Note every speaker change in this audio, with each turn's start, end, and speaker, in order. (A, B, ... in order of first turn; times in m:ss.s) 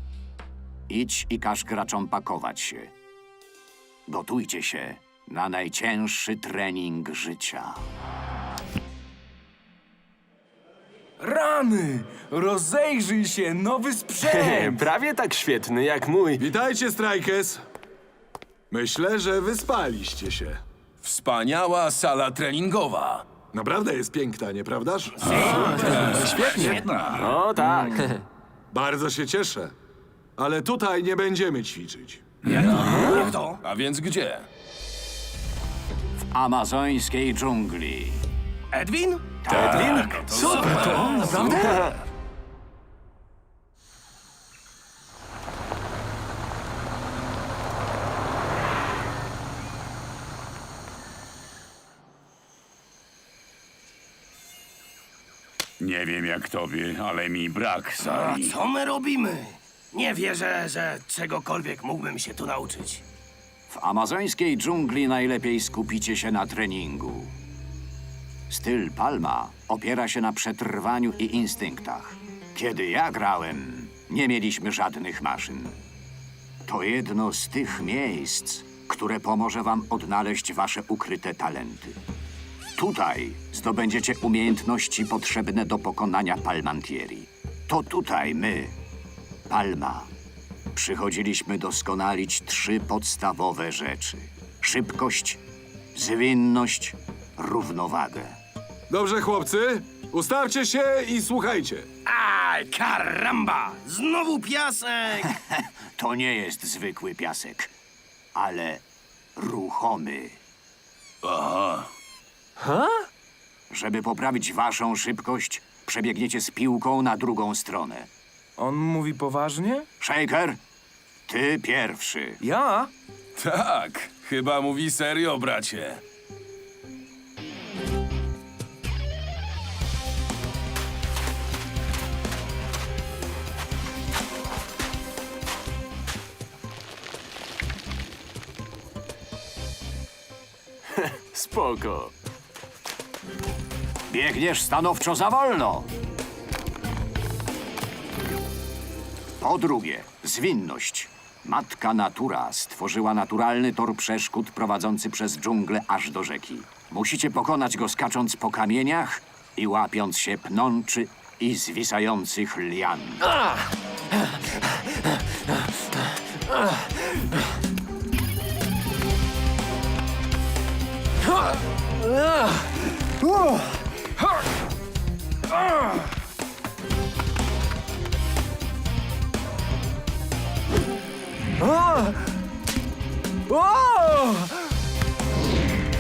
0:00.9-0:02.9 A
0:04.1-0:07.8 A
0:11.2-0:14.9 B
0:14.3-0:16.4 C
0:16.4-0:17.6 D
0:18.7-0:20.6 D
0:21.0-0:23.2 E
0:23.5-0:26.8 D
0:25.7-0:27.3 E
0:27.1-0:28.0 C
0:28.7-0:29.7 D
0:30.4-0:32.2 D
0:32.5-0:34.5 E
0:32.5-0:33.6 F
0:36.4-0:38.2 A
0:38.7-0:39.2 F
0:39.4-0:40.2 A
0:39.5-0:41.8 E
0:39.9-0:41.3 F
0:55.8-0:58.5 G
0:58.0-1:03.0 F
1:03.7-1:07.3 A
1:08.5-1:15.8 A
1:16.6-1:22.0 A
1:22.8-1:28.8 A
1:29.5-1:30.1 A
1:30.7-1:35.4 A
1:35.9-1:38.4 A
1:38.9-1:41.9 D
1:42.0-1:45.3 F
1:46.0-1:47.7 A
1:48.4-1:48.8 A
1:49.4-1:50.4 A
1:53.7-1:58.1 A
1:58.6-1:59.9 B
2:00.0-2:00.6 A
2:01.3-2:02.4 A
2:02.4-2:02.9 B
2:03.4-2:06.0 E
2:21.3-2:22.1 C
2:24.1-2:25.9 A
2:29.4-2:43.2 A